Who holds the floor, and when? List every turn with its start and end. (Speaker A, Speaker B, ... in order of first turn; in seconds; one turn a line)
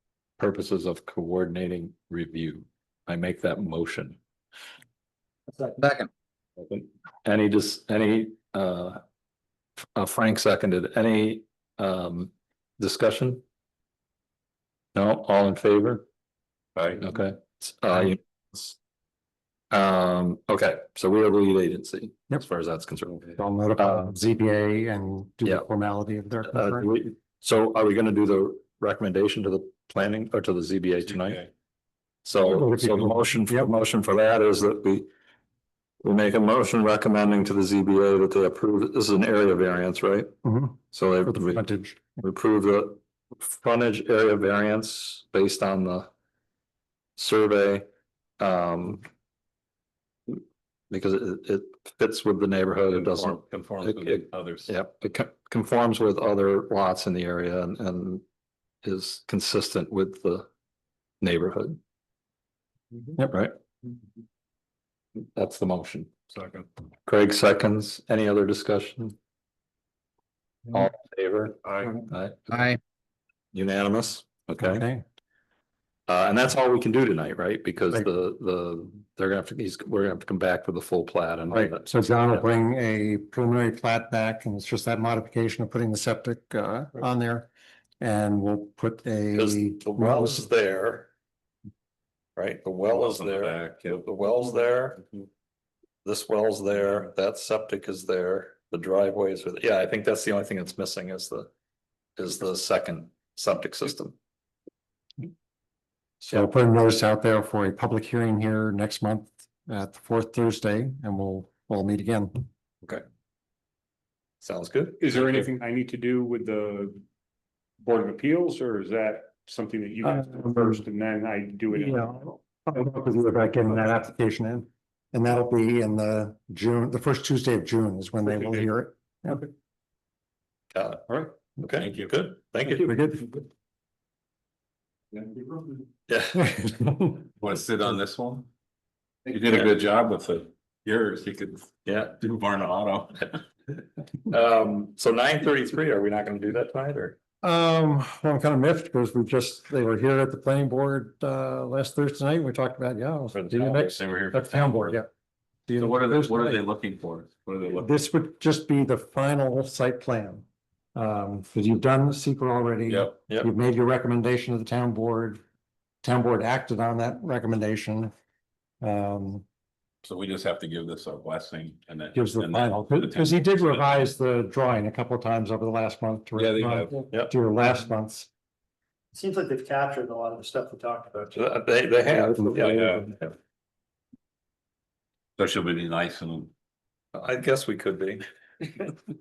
Speaker A: 0.4-4.2
Speaker A: 6.7-9.0
Speaker A: 9.9-13.4
Speaker A: 14.9-16.1
Speaker B: 16.8-17.0
Speaker A: 16.9-18.8
Speaker A: 19.7-24.1
Speaker C: 23.4-26.9
Speaker A: 26.5-31.4
Speaker B: 31.1-31.5
Speaker A: 32.2-35.1
Speaker C: 32.4-33.7
Speaker A: 36.0-40.3
Speaker C: 40.4-42.2
Speaker A: 40.9-41.7
Speaker A: 42.2-46.1
Speaker A: 47.2-47.9
Speaker A: 48.4-49.1
Speaker A: 50.3-58.2
Speaker B: 52.9-54.7
Speaker A: 58.8-60.5
Speaker A: 61.2-61.8
Speaker A: 63.3-63.5
Speaker A: 65.2-66.1
Speaker B: 66.3-66.7
Speaker A: 67.1-69.2
Speaker A: 70.7-72.6
Speaker B: 71.7-71.9
Speaker A: 73.5-74.9
Speaker C: 74.6-75.0
Speaker A: 76.1-82.5
Speaker C: 81.5-87.5
Speaker C: 88.0-90.5
Speaker A: 89.3-91.1
Speaker A: 92.4-95.0
Speaker B: 93.0-94.2
Speaker A: 96.0-101.5
Speaker A: 102.2-104.2
Speaker A: 106.2-106.5
Speaker C: 106.3-112.5
Speaker A: 114.4-115.4
Speaker D: 115.0-117.0
Speaker D: 117.8-122.4
Speaker C: 120.0-120.8
Speaker C: 121.7-129.4
Speaker A: 130.7-132.9
Speaker B: 131.8-132.1
Speaker C: 132.7-133.4
Speaker A: 136.1-136.7
Speaker C: 136.4-137.2
Speaker B: 137.4-138.5
Speaker B: 139.3-143.4
Speaker A: 141.9-142.2
Speaker A: 144.3-147.2
Speaker C: 147.4-155.1
Speaker B: 153.3-155.0
Speaker C: 155.7-156.6
Speaker B: 155.7-157.9
Speaker C: 157.7-165.4
Speaker B: 162.9-163.2
Speaker C: 166.0-168.1
Speaker C: 168.8-169.4
Speaker B: 170.0-174.1
Speaker C: 172.1-178.3
Speaker B: 176.3-177.1
Speaker E: 179.2-181.3
Speaker A: 181.3-183.3
Speaker C: 182.1-183.0
Speaker B: 182.6-183.1
Speaker B: 185.4-186.5
Speaker A: 187.1-188.2